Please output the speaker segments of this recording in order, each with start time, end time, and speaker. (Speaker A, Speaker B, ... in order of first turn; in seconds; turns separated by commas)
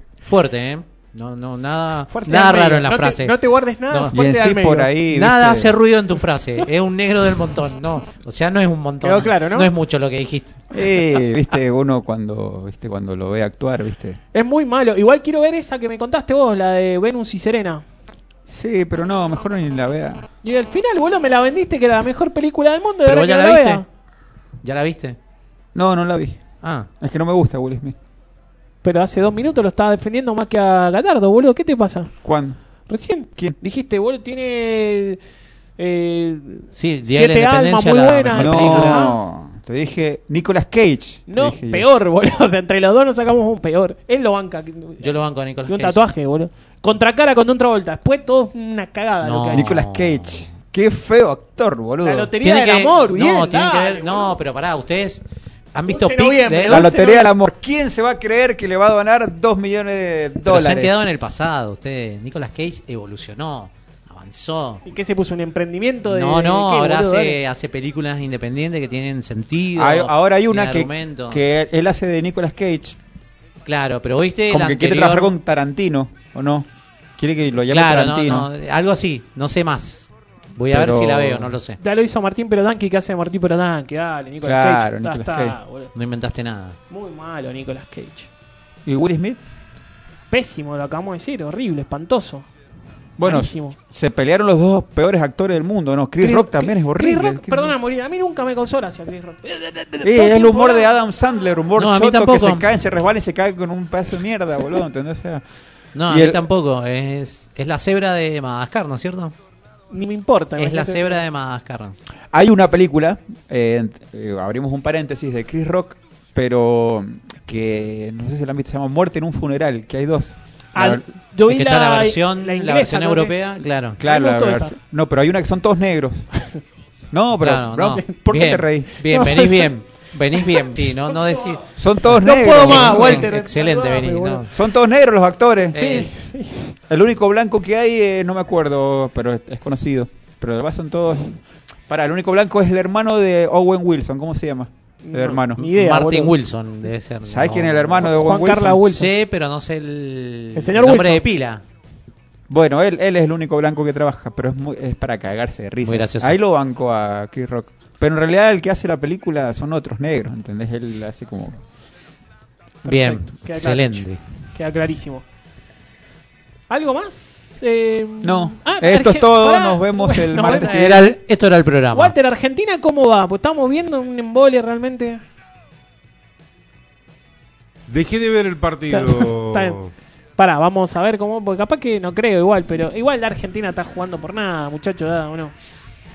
Speaker A: 0.2-3.3, Speaker B: 2.1-4.9, Speaker A: 3.9-4.2, Speaker C: 4.1-5.7, Speaker A: 5.1-10.8, Speaker B: 9.0-9.7, Speaker C: 10.7-14.2, Speaker B: 14.3-17.8, Speaker C: 18.5-20.2, Speaker B: 20.4-23.8, Speaker A: 23.0-23.8, Speaker A: 24.6-25.2, Speaker C: 25.7-26.4, Speaker A: 26.6-26.9, Speaker C: 27.0-27.9, Speaker B: 28.8-32.1, Speaker C: 32.2-32.6, Speaker B: 32.9-35.2, Speaker B: 35.8-39.2, Speaker A: 36.7-39.1, Speaker C: 38.3-41.9, Speaker B: 41.3-45.0, Speaker A: 45.0-46.0, Speaker B: 45.7-49.8, Speaker A: 49.2-50.4, Speaker C: 49.5-52.3, Speaker B: 52.0-54.4, Speaker A: 52.4-55.2, Speaker A: 55.7-56.9, Speaker B: 55.9-57.3, Speaker C: 56.7-61.1, Speaker A: 60.4-64.8, Speaker B: 64.8-67.4, Speaker A: 66.0-71.4, Speaker C: 69.8-73.0, Speaker A: 73.6-75.3, Speaker C: 74.5-76.7, Speaker C: 77.2-78.5, Speaker A: 77.6-81.8, Speaker C: 80.7-81.5, Speaker B: 81.8-85.9, Speaker C: 84.4-85.6, Speaker A: 85.9-86.8, Speaker B: 86.9-88.3, Speaker C: 88.8-89.4, Speaker B: 90.3-92.5, Speaker C: 93.2-97.7, Speaker B: 93.2-93.8, Speaker B: 96.2-100.9, Speaker C: 100.0-105.4, Speaker A: 101.7-102.7, Speaker A: 105.9-109.3, Speaker C: 106.1-106.4, Speaker B: 109.9-111.2, Speaker A: 110.6-112.0, Speaker C: 112.3-121.0, Speaker B: 120.7-123.4, Speaker A: 121.5-124.0, Speaker C: 124.0-126.3, Speaker B: 124.0-124.7, Speaker C: 127.1-129.4, Speaker A: 127.4-134.5, Speaker B: 129.0-129.7, Speaker B: 130.4-130.7, Speaker C: 131.8-133.3, Speaker B: 132.1-134.5, Speaker C: 134.5-135.8, Speaker A: 135.7-136.1, Speaker B: 135.7-136.7, Speaker C: 136.9-145.6, Speaker B: 145.0-146.3, Speaker A: 145.6-151.6, Speaker C: 147.2-148.8, Speaker B: 148.0-149.1, Speaker B: 150.5-151.2, Speaker C: 152.5-161.6, Speaker A: 155.8-156.4, Speaker A: 162.8-164.2, Speaker B: 162.8-165.2, Speaker B: 166.7-170.8, Speaker C: 168.2-171.2, Speaker A: 170.4-172.1, Speaker B: 171.9-175.2, Speaker D: 177.9-179.9, Speaker B: 178.9-179.8, Speaker B: 180.4-185.5